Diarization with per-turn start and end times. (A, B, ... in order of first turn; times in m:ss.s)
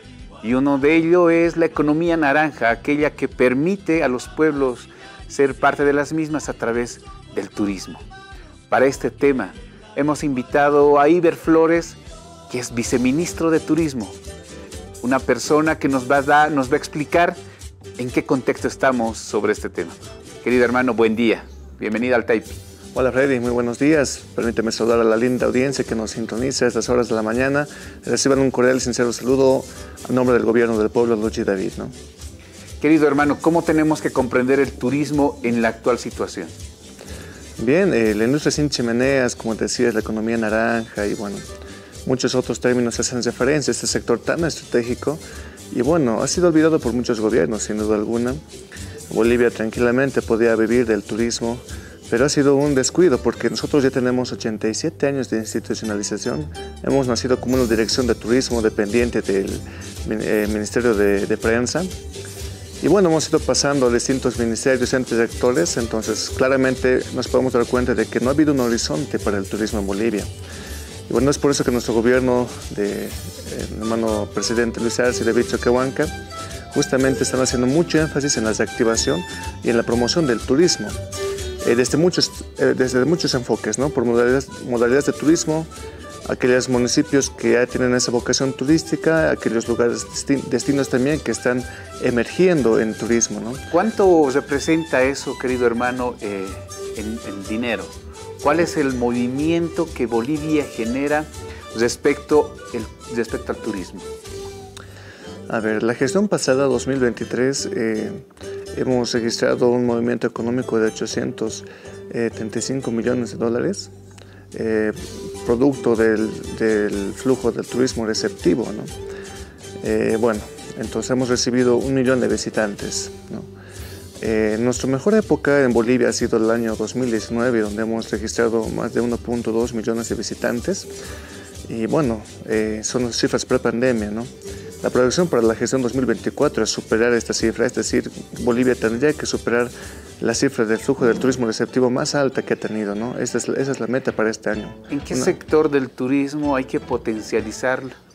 0:00.4-0:08.0 A
0:08.7-0:14.2 A
0:15.0-0:17.4 A
0:18.0-0:22.6 A
0:22.9-0:31.9 B
0:32.8-0:36.5 A
0:37.6-0:41.4 B
0:42.0-0:48.4 B
0:49.1-1:01.9 B
1:02.8-1:10.3 B
1:11.1-1:16.1 B
1:16.7-1:21.0 B
1:21.6-1:25.7 B
1:26.2-1:33.6 B
1:33.7-1:44.1 A
1:45.5-1:53.9 B
1:54.5-1:58.9 B
1:59.8-2:03.5 B
2:04.2-2:10.9 B
2:11.7-2:14.3 B
2:14.8-2:25.3 B
2:24.9-2:27.9 A